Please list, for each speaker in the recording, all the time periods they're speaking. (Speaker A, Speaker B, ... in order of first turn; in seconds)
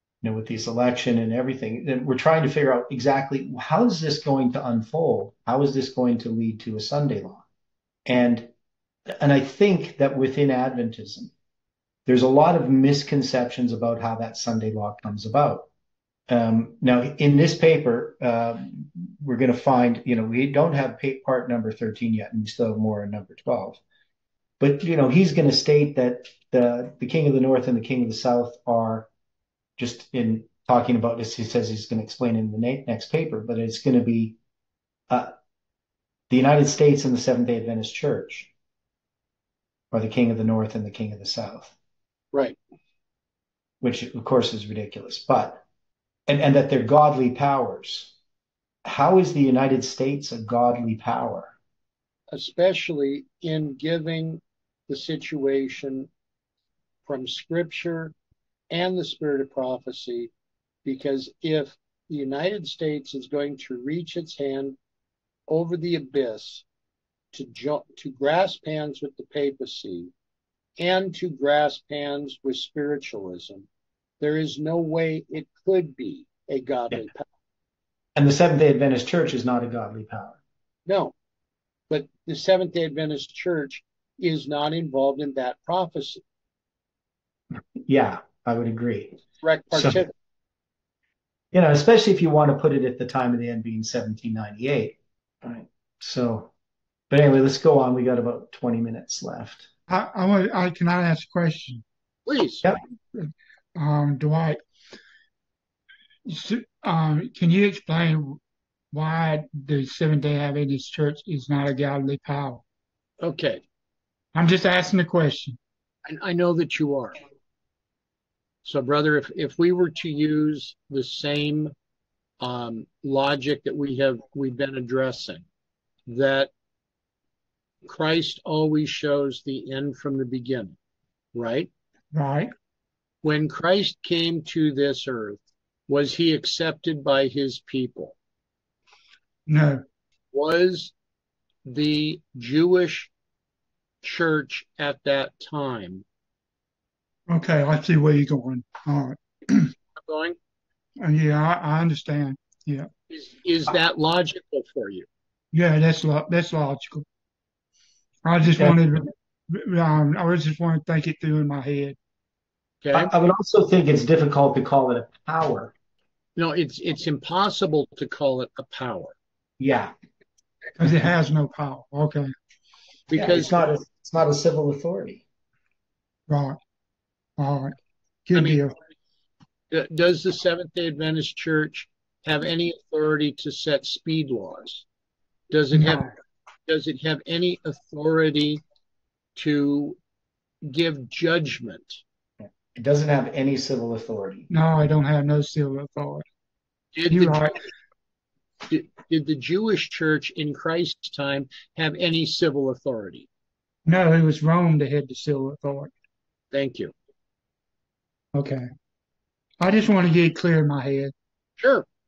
Speaker A: 0.2-7.4, 8.1-8.5, 9.1-11.3, 12.1-15.7, 16.3-23.8, 24.6-29.1, 29.8-34.4, 36.3-38.5, 39.9-41.8, 43.8-45.6, 46.3-48.1, 48.8-51.5, 78.2-80.4, 87.9-89.2, 89.7-90.0, 91.5-96.5, 97.1-99.7, 158.6-158.9, 162.9-165.7, 169.6-169.9, 173.1-175.2, 192.7-194.5
Speaker B: 42.3-42.6, 52.3-56.1, 57.1-58.1, 58.7-60.3, 60.9-64.8, 65.5-66.7, 67.3-70.1, 70.8-73.7, 74.2-77.3, 80.9-81.1, 81.9-86.2, 89.4-90.1, 102.3-102.7, 113.2-113.6, 116.0-117.2, 118.7-121.7, 122.4-125.5, 126.1-126.5, 127.8-130.8, 131.3-131.7, 133.2-138.2, 140.3-140.9, 141.7-143.1, 144.0-146.1, 150.0-150.4, 153.1-155.1, 162.8-163.1, 166.4-169.2, 173.1-173.6, 178.3-178.6, 179.7-184.8, 185.5-186.1, 186.7-188.6, 189.3-190.0, 190.6-192.0, 196.9-197.6, 198.7-203.3, 206.5-206.9, 211.6-211.9
Speaker C: 99.9-101.8, 103.8-104.6, 106.3-108.4, 108.9-112.6, 114.3-115.6, 132.1-132.5, 139.5-139.8, 147.3-149.7, 151.0-152.9, 155.5-157.0, 158.2-162.0, 170.8-172.3, 176.3-176.6, 177.4-177.8, 178.3-178.7, 185.7-186.1, 194.5-196.2, 197.1-197.6, 203.9-205.9, 208.3-208.7, 209.6-211.1